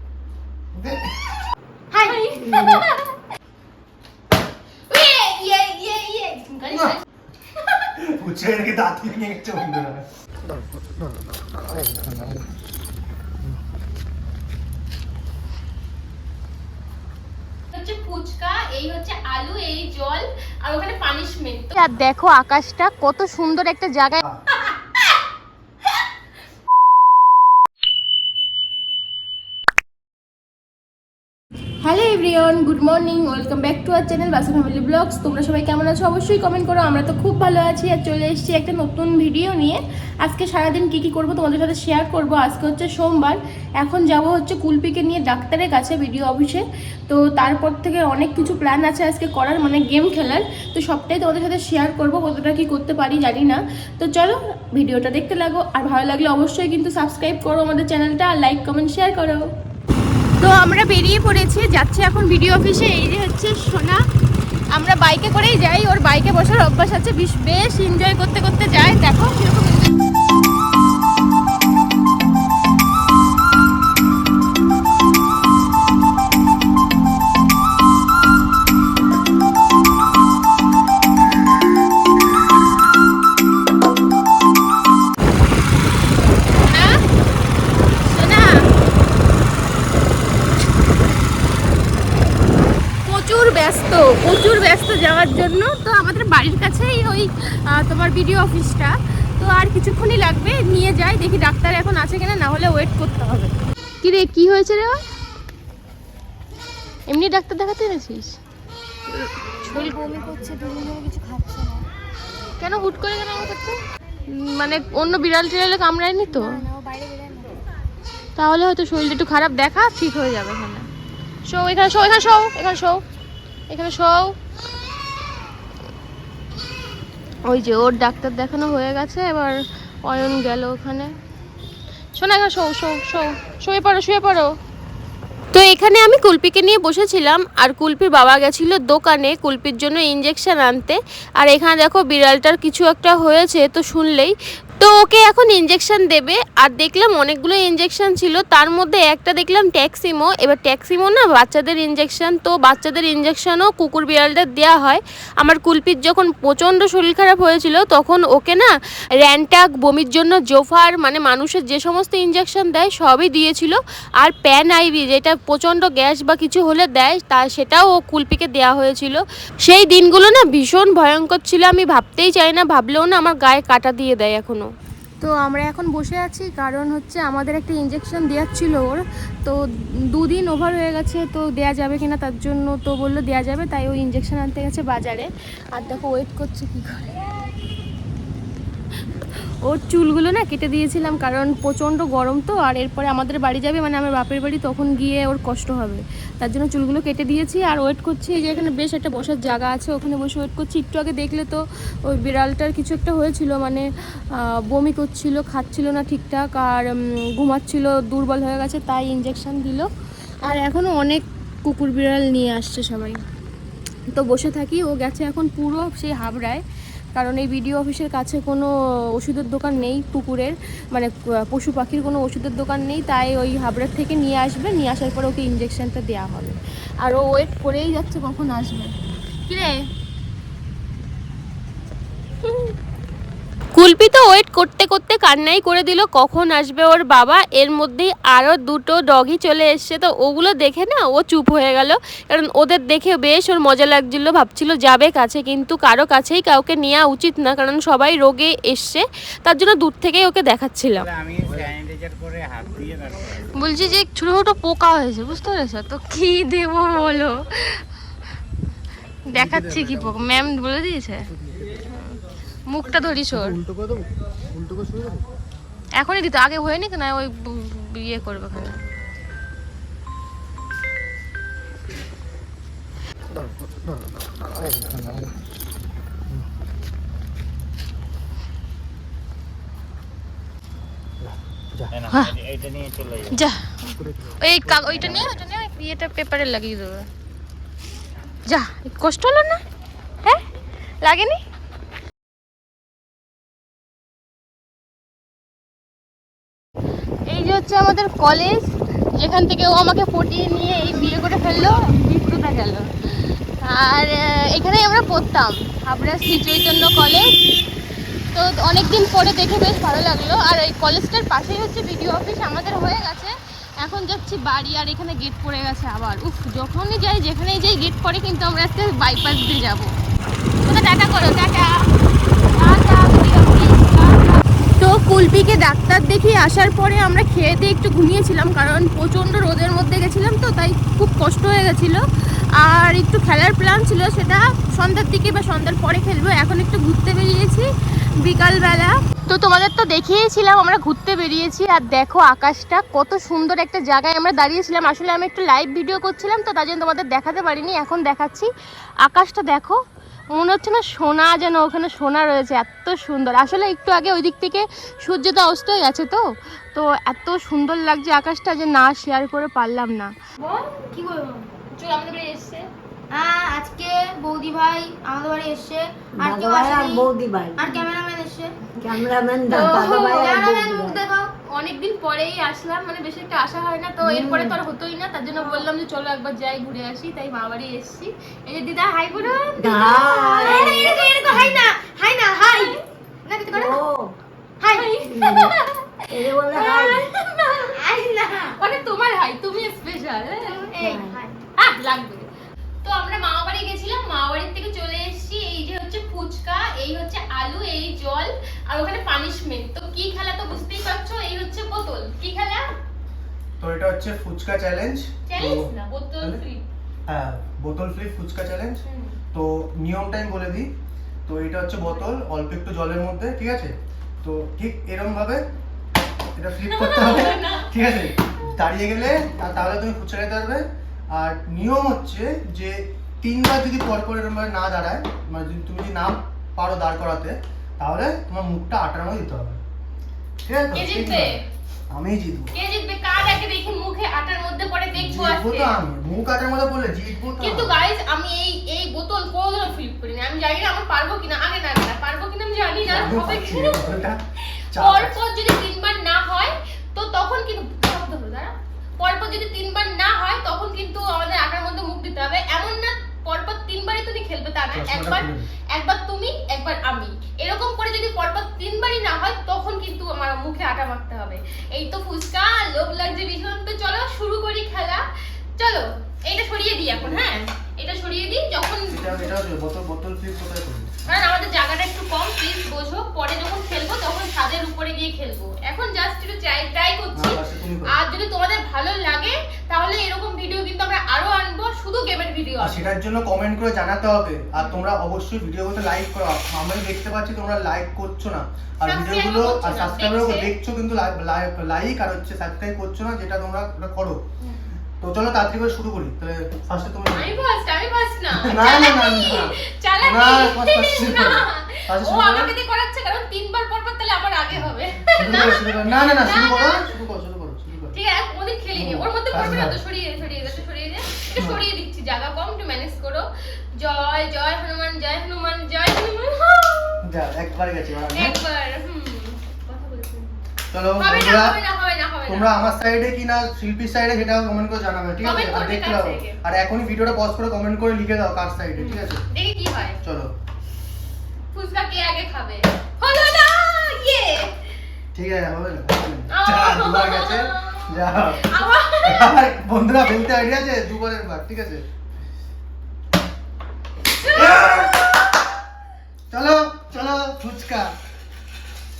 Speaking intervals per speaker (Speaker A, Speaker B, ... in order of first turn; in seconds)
Speaker A: 0.7-1.1, 6.7-6.9, 8.0-10.0, 259.4-260.0, 263.3-265.1, 281.2-281.9, 403.6-405.7, 407.1-410.7, 411.2-415.4, 416.4-429.6, 430.4-431.4, 431.9-432.5, 434.9-437.8, 442.9-444.2, 444.7-445.2, 454.7-455.5, 466.9-467.3, 468.9-470.9, 477.1-477.9, 482.6-494.2, 495.0-497.4, 498.3-502.5, 504.5-507.9, 508.7-509.8, 511.3-511.6, 517.0-518.4, 520.7-521.6, 522.2-529.2, 530.0-530.3, 535.1-538.5, 539.0-541.9, 544.3-545.2, 546.3-547.9
Speaker B: 1.9-2.8, 109.7-111.9, 116.3-117.6, 360.9-361.4, 363.1-367.1, 367.6-368.5, 370.1-371.2, 379.7-383.8, 384.6-385.0, 387.8-388.7, 390.4-391.4
Speaker C: 2.0-3.0, 4.9-7.0, 17.7-24.7, 31.8-59.5, 60.4-64.0, 64.7-69.9, 86.7-87.0, 88.0-88.6, 93.0-105.0, 107.1-108.4, 109.7-109.9, 112.6-116.6, 118.4-120.8, 121.5-123.0, 123.7-124.3, 127.5-131.1, 132.2-134.5, 135.5-158.7, 159.2-179.6, 180.1-187.2, 189.6-209.9, 210.4-213.2, 214.1-216.6, 217.2-228.9, 229.5-229.8, 233.7-251.1, 253.6-257.8, 259.3-261.3, 262.7-263.6, 266.0-268.8, 283.3-283.7, 284.4-287.1, 288.5-289.6, 291.0-291.4, 297.3-302.9, 303.6-307.3, 308.3-319.9, 320.6-321.9, 322.5-332.0, 332.6-348.5, 349.0-360.9, 361.7-362.7, 369.5-382.8, 384.7-385.8, 386.5-387.8, 388.6-390.7, 391.6-392.3, 392.8-402.7, 405.3-406.6, 408.8-409.1, 416.6-417.7, 430.7-431.4, 432.5-435.8, 437.4-443.8, 444.8-465.0, 465.6-469.3, 471.1-482.9, 484.6-484.8, 488.8-490.5, 497.1-506.8, 507.9-517.0, 518.1-520.3, 521.0-522.5, 525.2-526.4, 528.8-530.0, 531.5-534.5, 536.3-539.3, 544.0-545.0
Speaker D: 250.9-253.5, 281.9-283.4, 284.8-285.3
Speaker E: 366.2-367.8, 368.8-371.0, 374.0-374.6, 379.6-381.6, 383.5-384.2, 385.1-385.5, 386.1-387.1, 390.8-391.2